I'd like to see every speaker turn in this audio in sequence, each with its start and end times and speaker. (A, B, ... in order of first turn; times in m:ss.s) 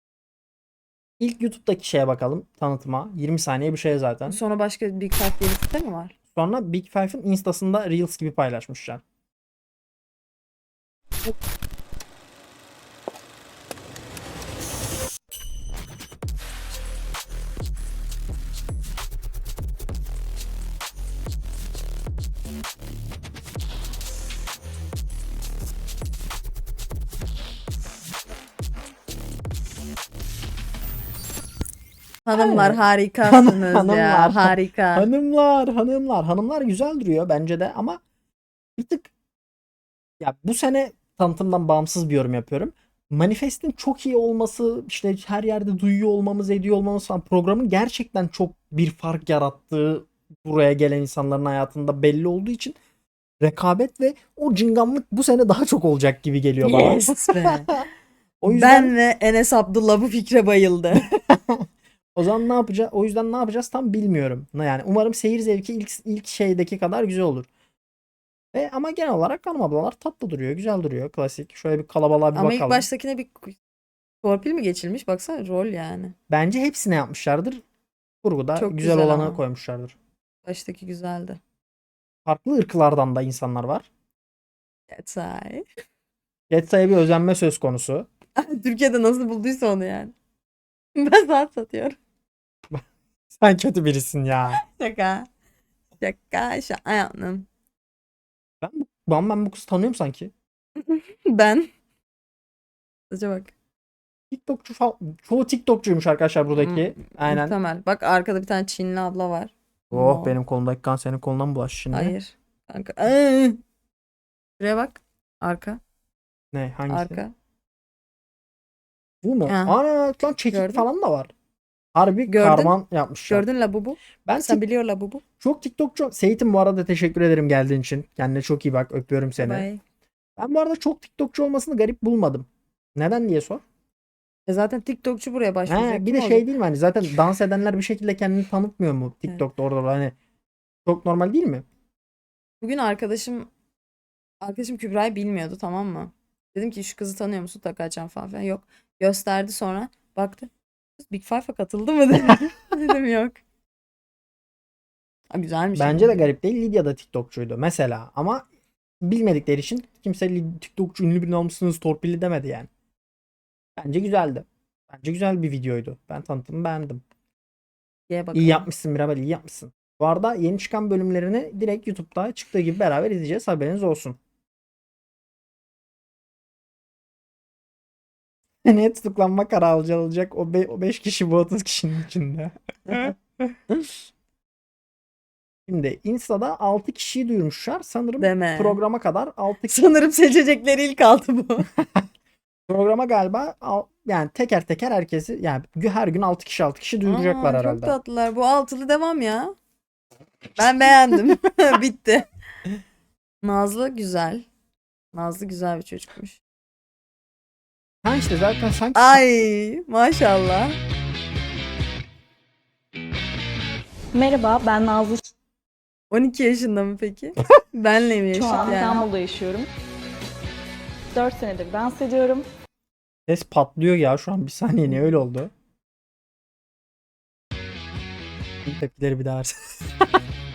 0:01.2-0:04.4 A
0:04.3-0:06.1 B
0:06.4-0:09.0 A
0:32.2-0:35.1 B
0:32.3-0:38.0 A
0:38.8-0:39.1 A
0:40.2-0:52.8 A
0:53.4-0:57.8 A
0:56.6-0:57.7 B
0:58.4-0:58.9 A
0:58.5-1:01.1 B
1:01.2-1:01.6 A
1:02.2-1:07.5 A
1:08.5-1:12.9 A
1:12.3-1:13.6 B
1:14.2-1:16.1 B
1:16.3-1:17.6 A
1:18.2-1:20.0 A
1:18.6-1:19.4 B
1:20.4-1:21.4 B
1:22.2-1:23.9 A
1:24.9-1:25.7 B
1:26.5-1:28.1 A
1:28.4-1:30.1 B
1:31.0-1:32.0 B
1:32.7-1:34.6 A
1:34.6-1:35.3 B
1:36.0-1:37.4 B
1:38.6-1:40.3 A
1:40.8-1:41.7 B
1:43.1-1:43.5 B
1:44.3-1:47.6 A
1:46.6-1:50.4 B
1:49.9-1:52.1 A
1:51.9-1:53.6 B
1:54.6-1:55.8 B
1:56.5-1:57.2 A
1:56.9-1:57.3 B
1:59.2-2:01.3 A
1:59.4-1:59.8 B
2:00.5-2:00.9 B
2:02.0-2:03.4 A
2:02.3-2:02.8 B
2:03.3-2:05.2 B
2:04.3-2:04.6 A
2:05.4-2:09.7 A
2:09.4-2:09.8 B
2:10.4-2:13.6 A
2:14.4-2:16.5 B
2:15.7-2:20.1 A
2:20.8-2:21.6 A
2:22.6-2:23.5 B
2:24.4-2:33.4 B
2:35.3-2:36.2 B
2:35.8-2:38.4 A
2:39.0-2:42.7 A
2:43.8-2:47.0 A
2:48.1-2:48.6 B
2:48.3-2:54.2 A
2:58.6-3:03.5 A
3:05.7-3:09.8 A
3:08.2-3:08.8 B
3:09.7-3:11.7 B
3:12.7-3:17.9 A
3:17.0-3:19.5 B
3:20.6-3:22.3 B
3:23.4-3:24.4 B
3:25.1-3:26.4 B
3:28.0-3:29.2 A
3:28.9-3:30.8 B
3:34.1-3:35.2 C
3:36.1-3:39.1 B
3:38.3-3:39.7 C
3:41.1-3:42.5 C
3:43.3-3:45.5 A
3:48.7-3:49.6 A